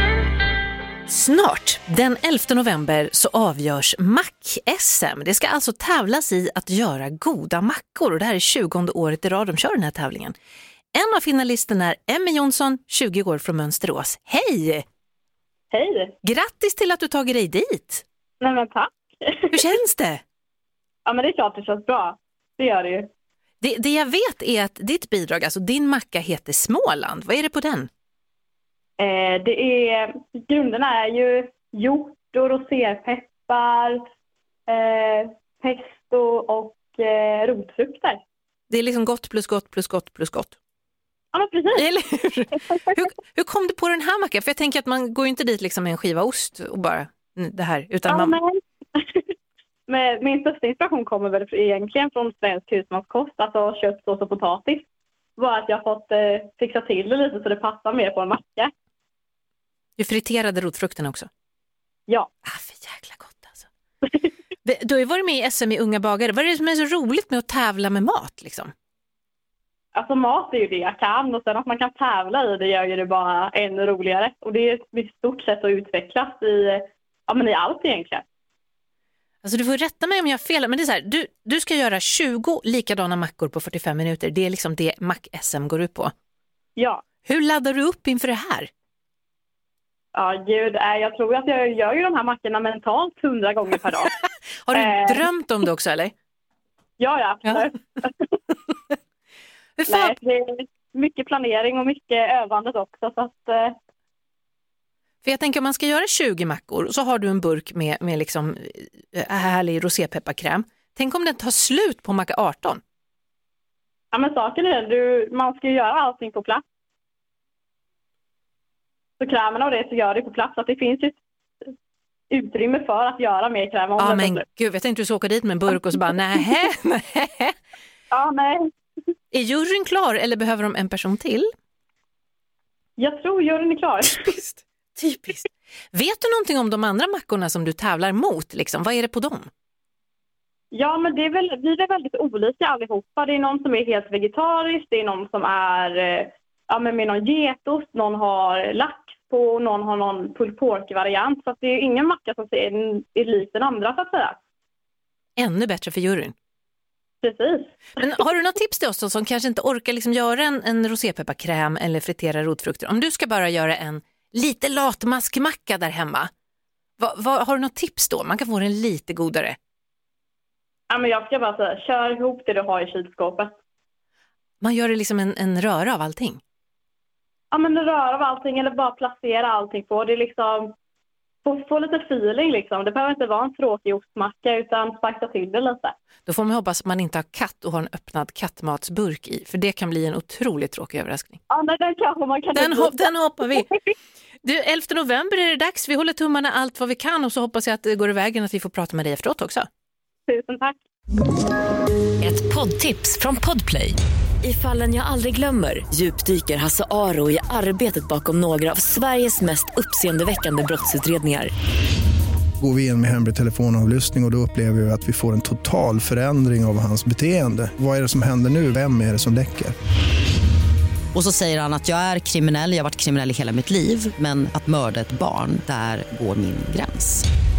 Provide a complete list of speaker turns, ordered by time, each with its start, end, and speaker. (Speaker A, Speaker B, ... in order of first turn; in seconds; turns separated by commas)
Speaker A: 1.1-10.3, Speaker A: 10.9-14.8, Speaker B: 15.7-16.1, Speaker A: 16.2-18.0, Speaker B: 18.4-19.6, Speaker A: 19.5-20.2, Speaker B: 21.1-23.1, Speaker A: 23.6-27.9, Speaker B: 29.0-34.0, Speaker B: 34.7-38.2, Speaker A: 38.7-40.5, Speaker B: 41.3-41.9, Speaker A: 41.8-48.4, Speaker B: 48.1-49.3, Speaker B: 49.9-54.9, Speaker B: 55.4-58.7, Speaker A: 60.0-61.3, Speaker A: 62.5-63.7, Speaker A: 64.6-68.7, Speaker B: 70.0-78.2, Speaker A: 79.4-86.1, Speaker B: 86.8-87.0, Speaker A: 87.2-88.7, Speaker B: 90.1-94.2, Speaker A: 94.7-96.1, Speaker B: 94.7-95.2, Speaker B: 97.0-98.4, Speaker A: 99.8-100.2, Speaker B: 99.9-103.7, Speaker A: 105.2-112.8, Speaker B: 114.1-116.6, Speaker B: 119.2-121.7, Speaker B: 122.3-124.4, Speaker A: 124.0-127.5, Speaker B: 128.1-128.7, Speaker A: 129.3-131.5, Speaker B: 133.0-134.3, Speaker A: 134.1-139.5, Speaker B: 140.7-154.4, Speaker A: 155.4-156.3, Speaker B: 157.2-157.8, Speaker A: 158.0-166.3, Speaker A: 167.0-169.6, Speaker B: 170.9-173.5, Speaker A: 174.6-176.4, Speaker B: 177.5-180.7, Speaker B: 181.4-185.9, Speaker A: 186.3-191.4, Speaker B: 191.5-193.8, Speaker A: 192.6-193.7, Speaker A: 194.4-199.7, Speaker B: 200.3-200.8, Speaker C: 202.2-211.5, Speaker D: 212.6-219.7, Speaker E: 221.1-227.3